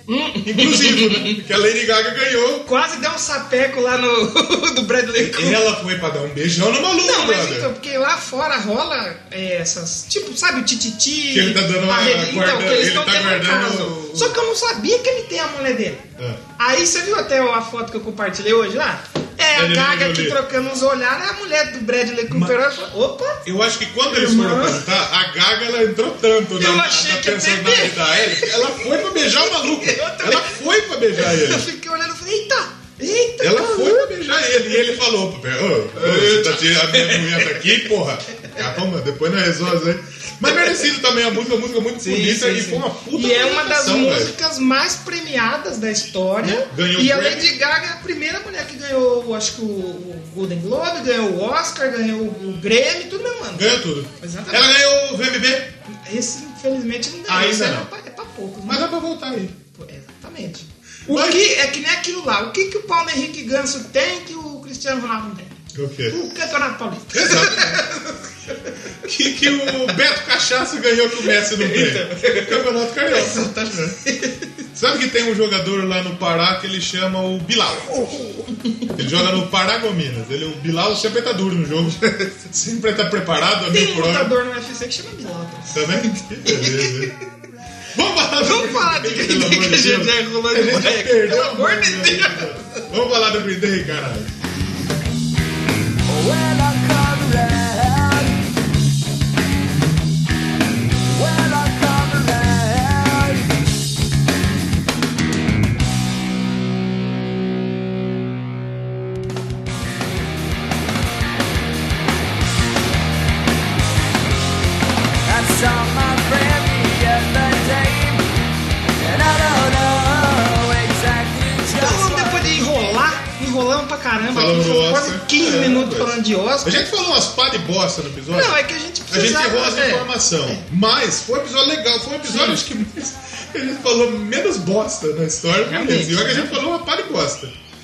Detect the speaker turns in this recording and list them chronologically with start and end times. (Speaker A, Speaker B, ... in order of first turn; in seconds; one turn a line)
Speaker A: 0.1-1.4
Speaker B: 0.4-2.7
Speaker A: 2.6-5.6
Speaker B: 5.1-7.7
Speaker A: 7.0-16.1
Speaker B: 11.3-14.4
Speaker B: 16.2-16.4
Speaker A: 16.6-23.4
Speaker B: 19.5-20.4
Speaker B: 22.3-22.6
Speaker B: 23.4-31.7
Speaker A: 24.1-24.9
Speaker A: 26.6-30.6
Speaker A: 31.2-34.1
Speaker B: 33.4-44.3
Speaker A: 36.0-37.8
Speaker A: 42.0-54.7
Speaker B: 46.4-47.5
Speaker B: 53.5-55.7
Speaker A: 55.9-58.9
Speaker B: 57.3-57.9
Speaker B: 58.6-59.6
Speaker A: 59.7-69.9
Speaker B: 61.1-61.5
Speaker B: 65.7-66.2
Speaker B: 67.1-67.9
Speaker B: 69.0-74.0
Speaker A: 71.2-74.6
Speaker B: 74.7-78.2
Speaker A: 78.0-79.0
Speaker B: 78.9-84.3
Speaker A: 81.9-82.3
Speaker A: 83.7-87.2
Speaker B: 85.7-87.2
Speaker B: 87.9-94.3
Speaker A: 88.4-92.9
Speaker C: 96.1-98.4
Speaker C: 101.1-103.5
Speaker C: 115.3-118.3
Speaker C: 119.0-122.4
Speaker A: 121.8-126.9
Speaker B: 124.3-137.5
Speaker A: 128.3-130.6
Speaker A: 132.2-132.6
Speaker A: 135.6-136.6